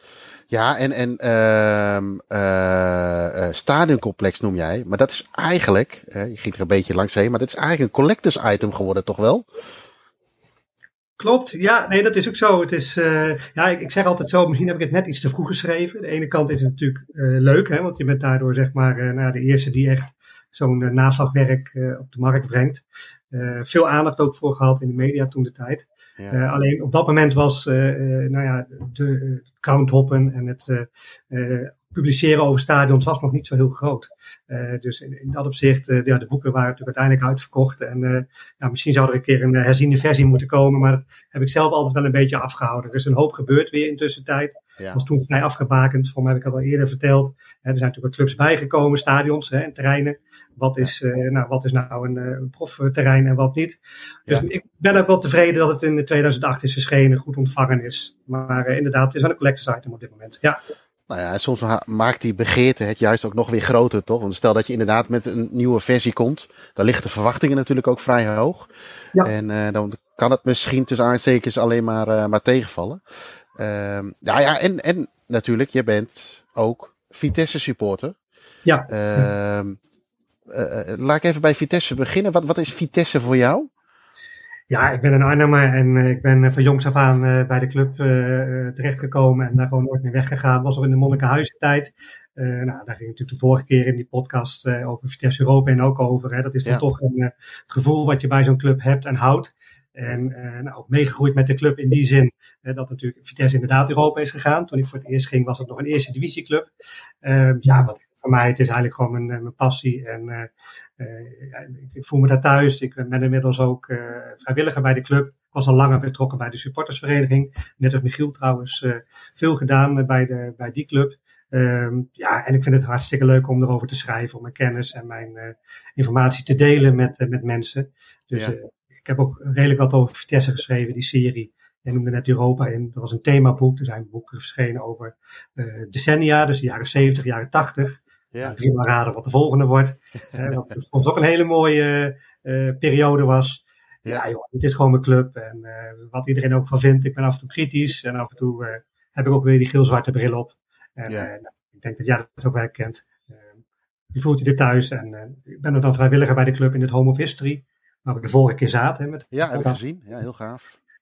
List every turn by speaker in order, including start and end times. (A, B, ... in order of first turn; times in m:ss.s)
0:00.5-0:09.5 A
0:11.2-1:00.6 B
1:01.1-1:08.7 A
1:09.2-1:13.0 A
1:13.6-1:18.2 A
1:18.7-1:19.3 B
1:18.9-1:19.8 A
1:20.5-1:23.7 A
1:24.7-1:46.7 B
1:47.2-2:33.4 B
2:34.1-2:39.8 B
2:39.3-2:40.8 A